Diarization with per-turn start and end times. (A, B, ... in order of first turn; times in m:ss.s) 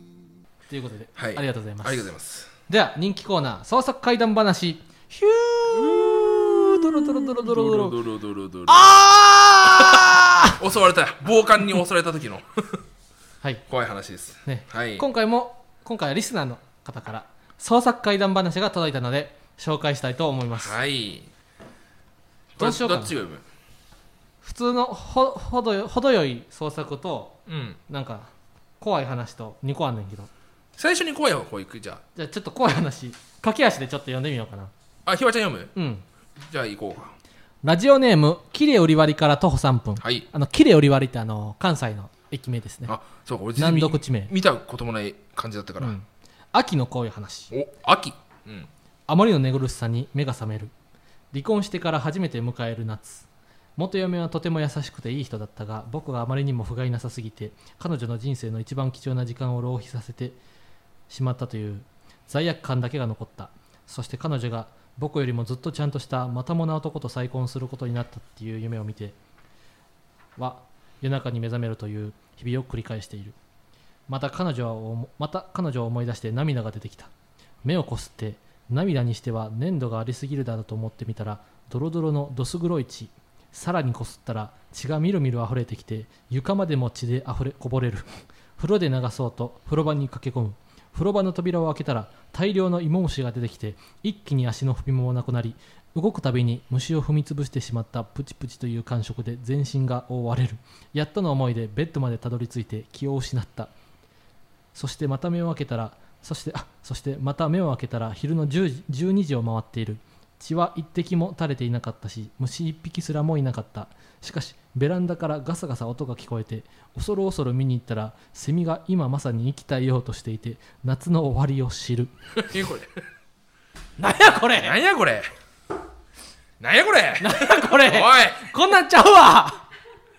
0:00.7-0:02.1 A
0:01.2-0:02.5 B
0:02.7-0:08.0 A
0:07.3-0:09.0 B
0:08.7-0:10.6 A
0:09.6-0:12.8 B
0:13.7-0:15.0 B
0:14.4-0:20.8 A
0:20.6-0:21.3 B
0:22.6-0:23.4 B
0:22.6-0:23.1 A
0:24.4-0:30.3 A
0:27.5-0:27.8 B
0:30.8-0:32.0 B
0:32.2-0:34.7 A
0:35.1-0:35.7 B
0:35.8-0:36.0 A
0:36.4-0:37.1 B
0:37.6-0:42.9 A
0:40.0-0:40.3 B
0:42.9-0:46.0 B
0:43.6-0:44.3 A
0:45.8-0:47.5 A
0:47.5-0:48.7 B
0:49.1-0:50.7 A
0:51.3-1:00.4 A
1:01.1-1:09.2 A
1:10.4-1:13.4 A
1:14.1-1:17.1 A
1:17.6-1:43.7 A
1:44.8-2:02.1 A
2:02.4-2:02.9 B
2:04.0-2:04.8 A
2:04.6-2:05.3 B
2:06.6-2:08.5 B
2:07.2-2:09.6 A